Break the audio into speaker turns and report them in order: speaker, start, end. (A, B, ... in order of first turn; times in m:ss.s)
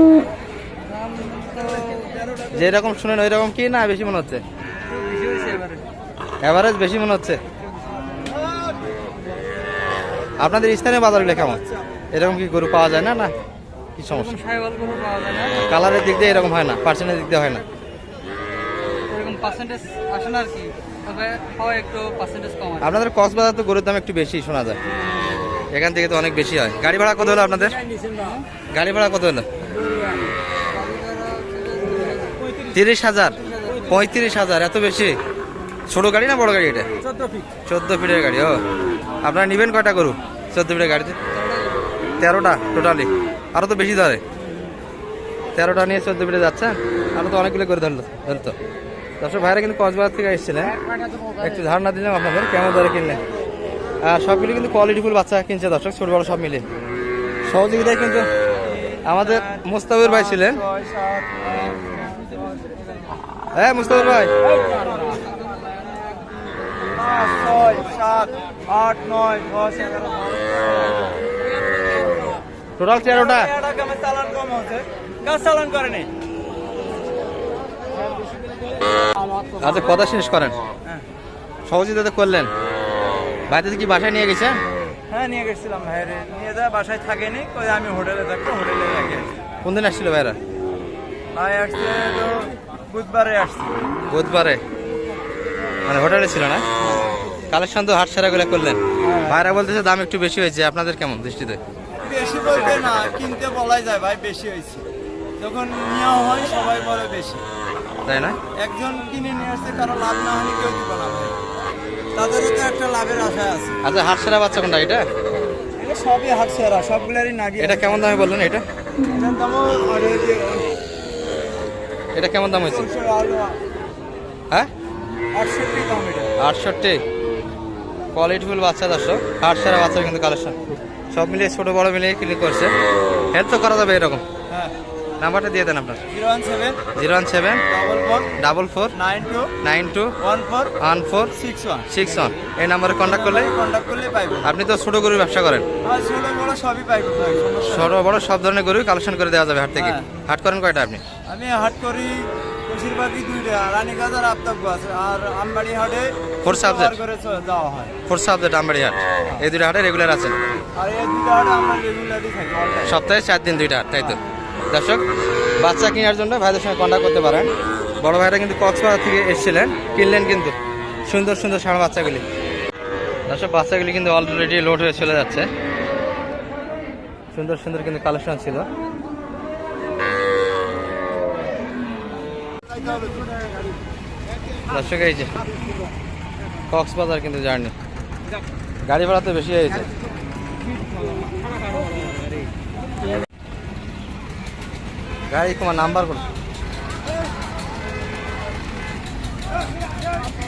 0:00.9-0:02.1 A
0:01.3-0:02.8 B
0:02.5-0:04.4 C
0:05.0-0:05.8 A
0:06.4-0:07.4 C
0:08.1-0:08.7 B
0:10.4-0:11.6 C
0:12.1-0:13.3 C
0:14.0-0:14.4 C
0:14.1-0:15.6 A
0:15.5-0:17.6 C
0:19.1-0:22.9 A
0:22.8-0:24.8 C
0:25.7-0:27.8 C
0:28.1-0:28.4 A
0:28.7-0:29.5 C
0:30.7-0:32.5 A
0:32.7-0:35.2 C
0:33.5-0:33.9 A
0:35.9-0:36.9 C
0:37.7-0:38.6 C
0:39.2-0:41.2 C
0:41.3-0:41.7 A
0:42.2-0:44.2 C
0:45.6-0:48.6 C
0:49.2-0:50.8 C
0:51.4-0:53.2 C
0:54.0-0:56.6 C
0:57.5-0:58.3 C
0:58.6-1:01.9 B
0:59.0-1:00.6 C
1:03.5-1:04.3 C
1:04.5-1:04.8 B
1:06.9-1:10.9 B
1:12.8-1:13.5 C
1:13.0-1:16.1 B
1:19.6-1:20.6 C
1:21.7-1:22.5 C
1:23.5-1:24.6 C
1:25.1-1:29.4 B
1:29.6-1:30.4 C
1:31.4-1:33.8 B
1:34.1-1:34.6 C
1:35.9-1:36.6 C
1:37.5-1:41.6 C
1:39.0-1:39.6 B
1:42.0-1:44.9 B
1:45.4-1:47.4 B
1:48.1-1:48.4 C
1:48.6-1:51.4 B
1:52.1-1:53.8 B
1:53.8-1:55.0 C
1:55.8-1:58.2 B
1:57.6-1:58.6 C
1:59.1-2:00.8 B
2:02.1-2:02.9 C
2:02.6-2:03.6 B
2:05.3-2:06.3 B
2:06.4-2:07.0 C
2:08.1-2:10.6 C
2:11.1-2:12.7 C
2:13.3-2:14.2 C
2:14.5-2:14.8 B
2:15.2-2:16.0 C
2:16.1-2:16.8 B
2:16.9-2:17.6 C
2:17.7-2:18.3 B
2:18.4-2:18.9 C
2:18.9-2:19.5 B
2:19.6-2:20.1 C
2:20.2-2:20.7 B
2:20.8-2:21.3 C
2:21.3-2:21.9 B
2:21.9-2:23.5 C
2:23.0-2:24.5 B
2:24.4-2:25.7 C
2:25.8-2:28.0 B
2:27.7-2:31.0 C
2:29.8-2:30.1 B
2:31.3-2:38.0 B
2:36.4-2:37.0 C
2:38.1-2:40.4 C
2:40.8-2:43.0 B
2:42.8-2:44.2 C
2:44.7-2:45.0 C
2:45.6-2:47.5 C
2:48.0-2:50.6 C
2:51.1-2:52.2 C
2:53.3-2:55.5 C
2:57.3-2:58.7 C
3:02.8-3:03.1 B
3:04.7-3:05.3 C
3:06.7-3:07.7 C
3:08.8-3:09.9 C
3:15.3-3:16.2 C